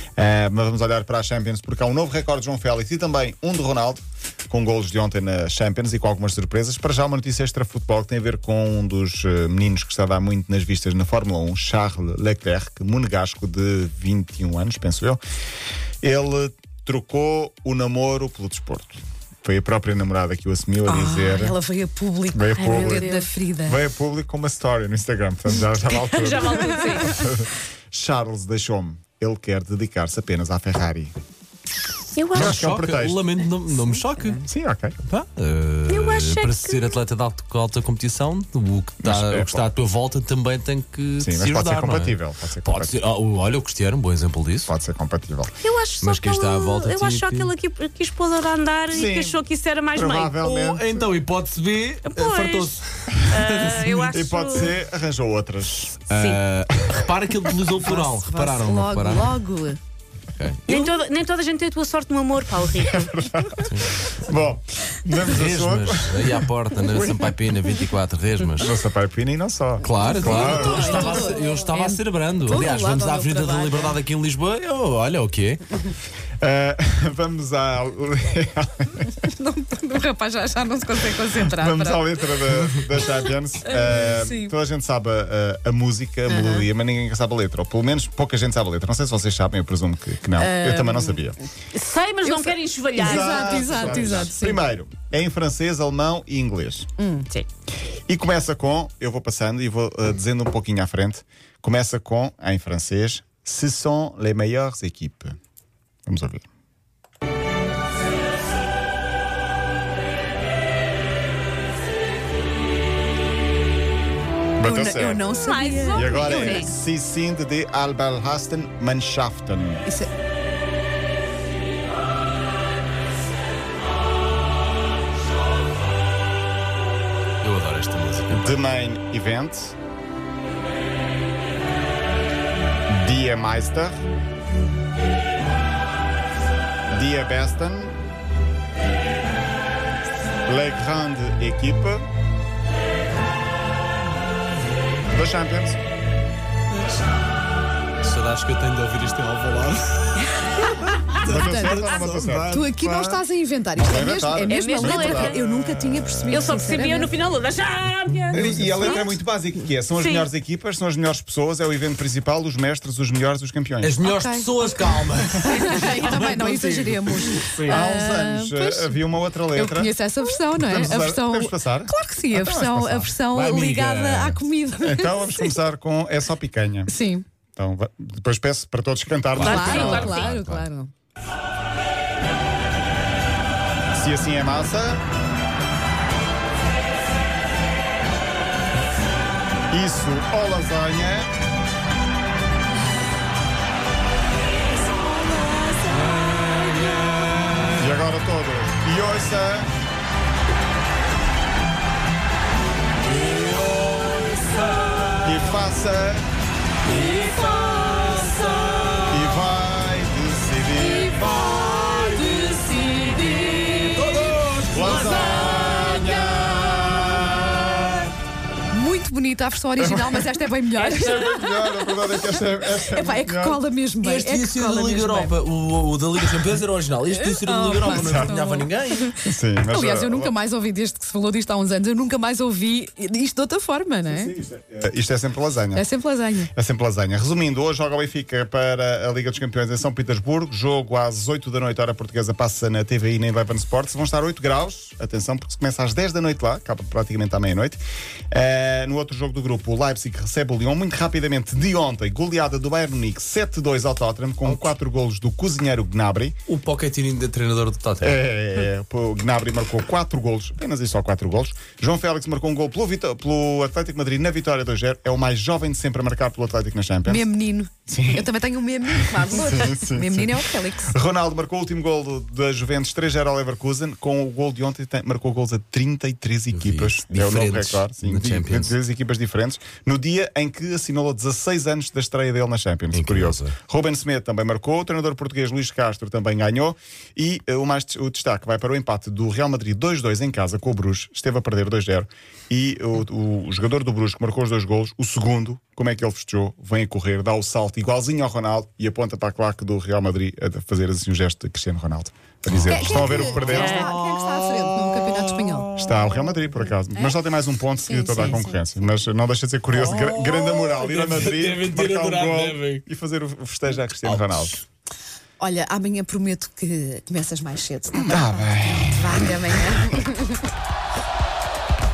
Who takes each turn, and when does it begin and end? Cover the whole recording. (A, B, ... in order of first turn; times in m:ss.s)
0:00.2-0:15.2 A
0:16.0-0:21.6 A
0:20.9-0:23.8 B
0:22.3-0:23.1 A
0:22.6-0:23.3 C
0:23.6-0:31.1 A
0:25.9-0:27.3 C
0:26.5-0:27.0 B
0:32.1-0:32.6 C
0:32.3-0:33.2 A
0:32.3-0:34.4 D
0:33.7-0:34.5 B
0:34.4-0:35.0 A
0:35.0-0:44.7 D
0:35.9-0:37.0 C
0:39.0-0:39.7 A
0:41.2-0:43.0 A
0:44.7-0:45.5 A
0:45.6-0:50.4 C
0:46.0-0:47.5 D
0:48.9-0:51.1 A
0:50.4-0:54.2 D
0:52.0-0:54.7 C
0:54.1-0:56.1 A
0:56.1-0:59.4 D
0:56.1-0:56.4 C
0:57.8-0:59.8 B
1:00.4-1:00.9 D
1:00.7-1:03.1 C
1:02.8-1:06.4 A
1:03.7-1:04.0 D
1:05.3-1:08.7 D
1:06.9-1:07.3 A
1:08.6-1:11.1 A
1:09.8-1:15.6 D
1:10.0-1:14.0 B
1:16.4-1:19.1 A
1:19.2-1:22.2 B
1:21.4-1:31.4 A
1:23.6-1:24.5 B
1:26.3-1:26.7 B
1:30.4-1:31.3 B
1:31.7-1:33.9 C
1:32.2-1:34.6 B
1:33.0-1:36.9 A
1:37.0-1:37.3 B
1:38.1-1:45.4 A
1:46.1-1:46.4 A
1:54.6-1:55.2 A
1:54.6-1:56.7 B
1:55.4-1:56.6 C
1:55.9-1:59.9 A
2:07.4-2:08.5 D
2:08.3-2:09.8 A
2:12.9-2:14.0 A
2:16.9-2:18.0 A
2:20.4-2:22.0 A
2:25.1-2:25.8 A
2:28.0-2:30.1 D
2:30.6-2:37.1 B
2:30.9-2:33.2 D
2:31.2-2:33.2 A
2:33.8-2:35.4 A
2:34.5-2:35.4 C
2:36.3-2:39.1 C
2:36.3-2:36.6 A
2:38.2-2:38.7 D
2:38.3-2:44.0 A
2:40.0-2:40.3 C
2:43.8-2:47.8 D
2:44.0-2:44.5 B
2:45.3-2:49.0 B
2:47.6-2:49.9 A
2:49.5-2:55.5 B
2:50.6-2:53.1 A
2:53.3-2:54.4 D
2:54.8-2:56.9 A
2:56.9-2:57.2 B
2:57.6-3:00.3 A
2:59.3-3:00.7 D
2:59.4-3:00.9 B
2:59.4-3:00.4 C
3:03.9-3:05.0 A
3:09.7-3:11.3 A
3:15.4-3:17.1 B
3:17.7-3:19.7 A
3:23.2-3:25.2 D
3:25.2-3:26.2 A
3:26.9-3:29.2 D
3:29.1-3:31.4 A
3:31.1-3:36.4 D
3:31.2-3:32.8 B
3:34.7-3:38.1 A
3:38.7-3:41.4 B
3:40.8-3:43.6 A
3:42.6-3:45.4 B
3:44.0-3:49.1 D
3:47.1-3:49.1 B
3:47.8-3:48.3 A
3:49.2-3:50.3 A
3:49.6-3:54.3 B
3:54.0-3:55.9 A
3:55.7-3:56.5 B
3:56.5-4:16.4 A
4:14.4-4:14.7 D
4:16.5-4:18.2 D
4:18.0-4:27.3 A
4:27.1-4:30.9 B
4:27.9-4:28.3 A
4:28.9-5:03.9 A
4:36.5-4:38.8 D
4:42.9-4:43.6 D
5:02.5-5:06.6 D
5:02.6-5:05.7 B
5:03.5-5:03.9 C
5:05.8-5:14.6 A
5:07.8-5:08.8 B
5:09.7-5:12.8 D
5:14.0-5:14.6 D
5:15.4-5:20.3 B
5:17.9-5:19.6 A